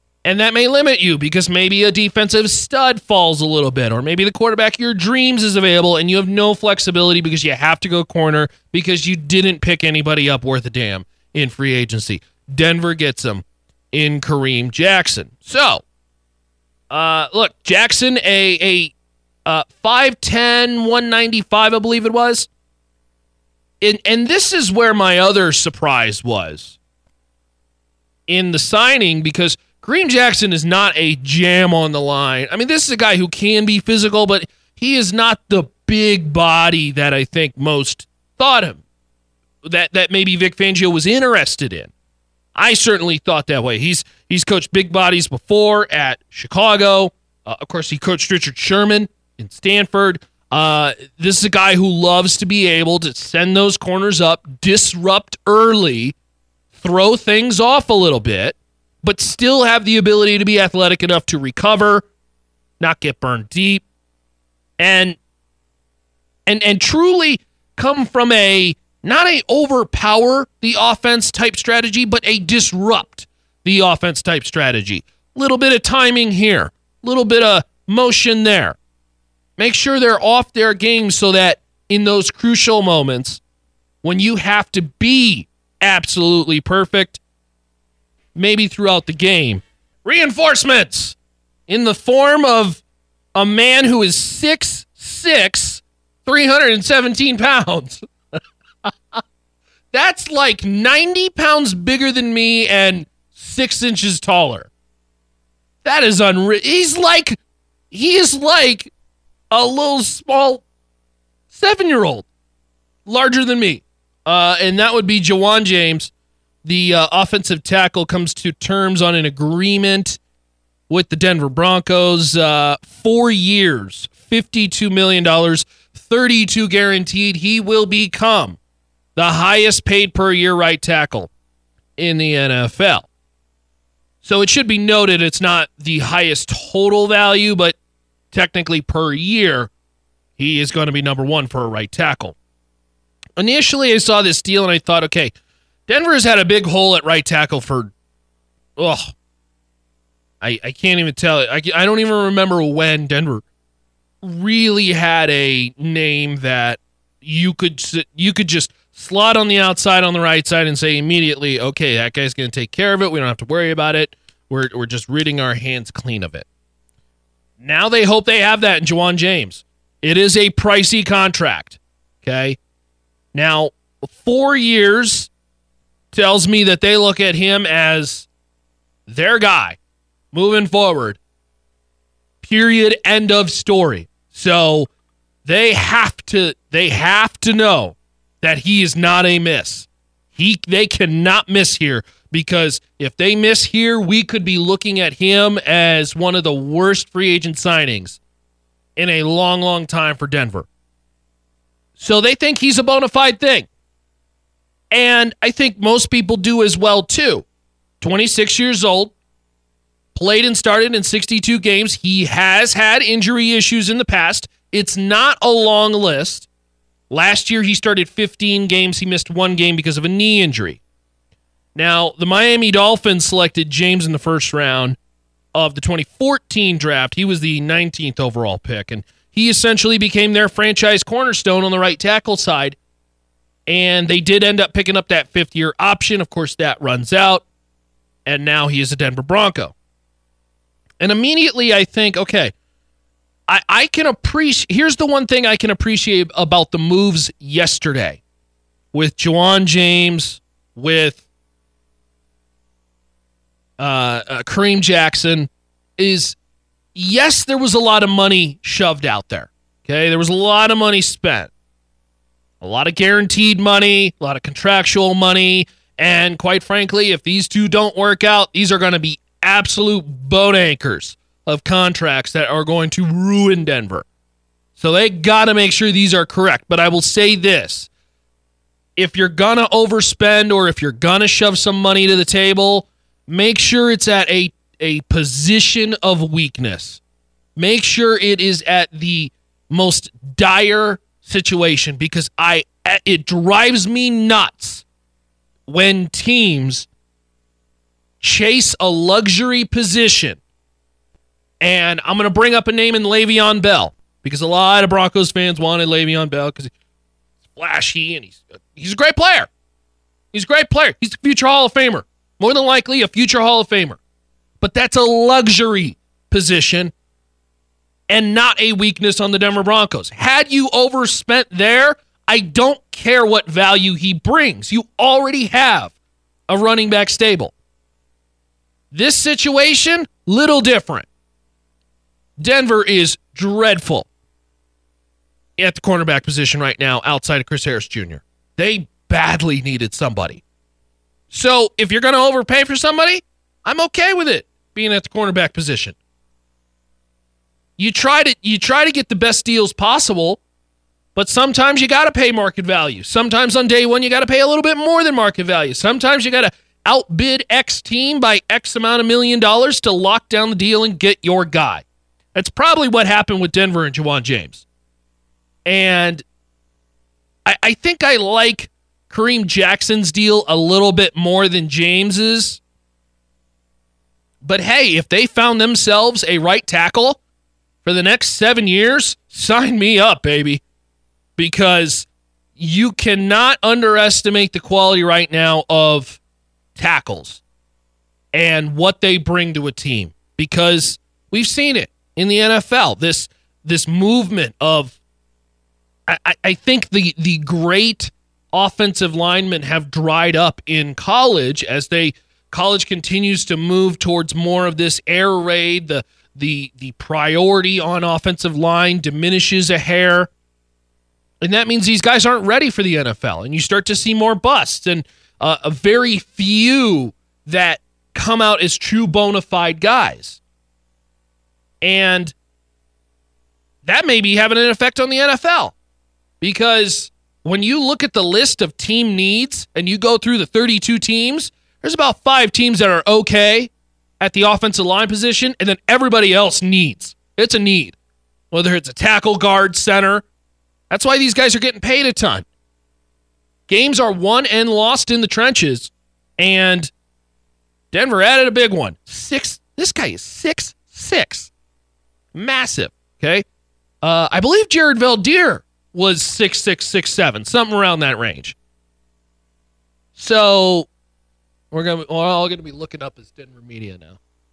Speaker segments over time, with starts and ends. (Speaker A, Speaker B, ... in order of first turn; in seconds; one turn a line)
Speaker A: 0.2-15.8
Speaker A: 16.9-22.5
Speaker A: 23.8-26.8
Speaker A: 28.3-38.8
Speaker A: 39.6-41.9
Speaker A: 42.5-56.2
Speaker A: 56.7-62.1
Speaker A: 62.8-63.9
Speaker A: 64.8-65.2
Speaker A: 66.5-78.8
Speaker A: 79.6-83.4
Speaker A: 84.0-87.2
Speaker A: 88.3-92.8
Speaker A: 93.3-98.0
Speaker A: 98.8-99.2
Speaker A: 99.9-104.7
Speaker A: 105.8-107.4
Speaker A: 107.9-108.9
Speaker A: 109.5-110.6
Speaker A: 111.5-112.3
Speaker A: 113.1-116.1
Speaker A: 116.6-120.2
Speaker A: 120.9-128.6
Speaker A: 129.2-131.3
Speaker A: 132.0-133.1
Speaker A: 134.2-137.8
Speaker A: 138.3-139.7
Speaker A: 140.4-142.4
Speaker A: 143.4-145.3
Speaker A: 145.9-147.9
Speaker A: 148.8-149.1
Speaker A: 150.4-153.4
Speaker A: 154.2-166.5
Speaker A: 167.6-172.6
Speaker A: 173.3-175.3
Speaker A: 176.1-178.3
Speaker A: 179.1-179.8
Speaker A: 180.3-181.2
Speaker A: 182.4-184.9
Speaker A: 185.4-198.2
Speaker A: 199.0-200.7
Speaker A: 202.0-203.7
Speaker A: 204.9-207.5
Speaker A: 208.0-209.1
Speaker A: 210.2-216.5
Speaker A: 217.1-220.8
Speaker A: 221.8-225.0
Speaker A: 225.5-232.8
Speaker A: 233.7-237.4
Speaker A: 238.3-239.8
Speaker A: 241.0-242.5
Speaker A: 243.5-248.2
Speaker A: 248.9-251.2
Speaker A: 253.8-256.4
Speaker A: 256.9-261.5
Speaker A: 262.6-274.1
Speaker A: 274.8-277.9
Speaker A: 279.0-287.0
Speaker A: 287.6-294.9
Speaker A: 295.7-296.9
Speaker A: 298.2-300.4
Speaker A: 301.6-306.7
Speaker A: 307.5-309.5
Speaker A: 310.3-314.0
Speaker A: 314.6-316.9
Speaker A: 318.1-325.9
Speaker A: 326.5-327.5
Speaker A: 328.9-331.1
Speaker A: 332.4-334.1
Speaker A: 335.6-340.4
Speaker A: 341.3-346.0
Speaker A: 347.8-350.4
Speaker A: 351.1-364.7
Speaker A: 365.6-366.2
Speaker A: 367.5-372.6
Speaker A: 374.4-377.2
Speaker A: 377.8-380.6
Speaker A: 381.4-386.2
Speaker A: 386.8-387.4
Speaker A: 388.3-395.0
Speaker A: 396.1-410.3
Speaker A: 411.4-420.4
Speaker A: 421.8-422.4
Speaker A: 423.8-425.8
Speaker A: 426.4-438.0
Speaker A: 438.5-440.3
Speaker A: 440.9-442.5
Speaker A: 443.7-446.9
Speaker A: 447.9-451.5
Speaker A: 452.3-453.5
Speaker A: 454.0-458.6
Speaker A: 460.2-460.9
Speaker A: 461.7-464.2